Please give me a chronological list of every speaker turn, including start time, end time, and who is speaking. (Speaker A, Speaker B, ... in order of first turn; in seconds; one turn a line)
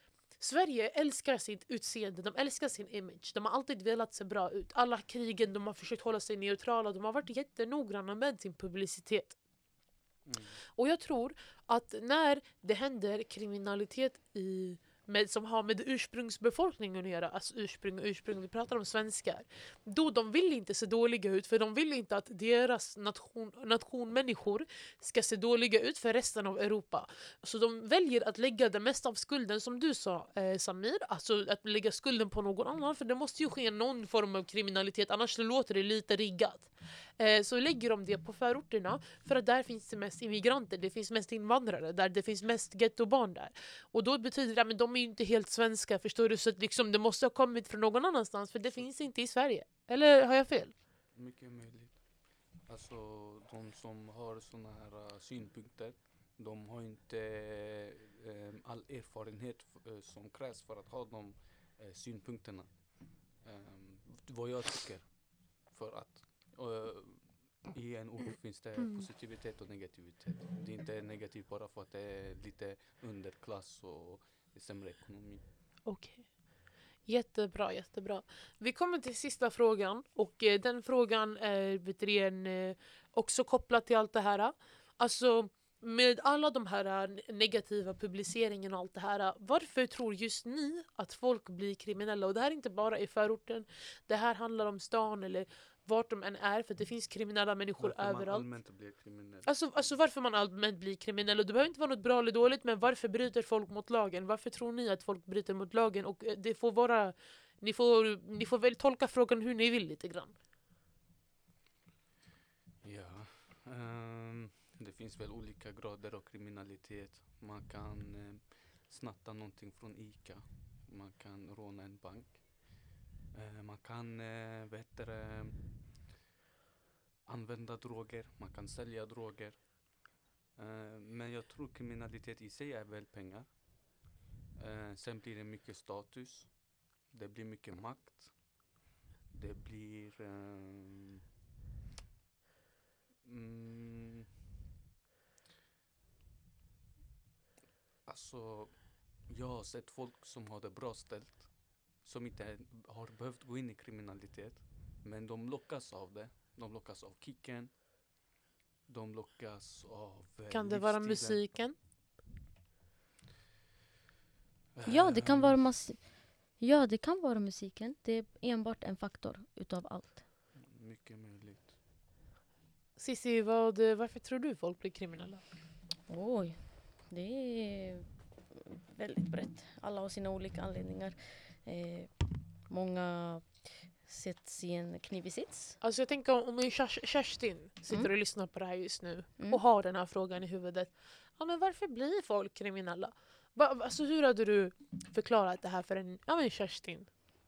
Speaker A: 0.4-9.4
Speaker B: 10.2-10.6
Speaker A: 10.8-50.8
Speaker B: 51.1-75.4
Speaker A: 75.8-98.5
Speaker B: 97.8-100.0
Speaker A: 99.4-110.3
Speaker B: 112.8-125.8
Speaker B: 127.2-133.7
Speaker B: 134.5-138.6
Speaker B: 139.3-141.2
Speaker B: 143.2-144.3
Speaker B: 148.0-157.8
Speaker B: 158.8-161.5
Speaker A: 160.5-161.8
Speaker B: 164.7-165.6
Speaker C: 164.8-170.2
Speaker B: 170.5-171.7
Speaker A: 173.0-175.4
Speaker C: 176.1-185.8
Speaker A: 185.8-197.1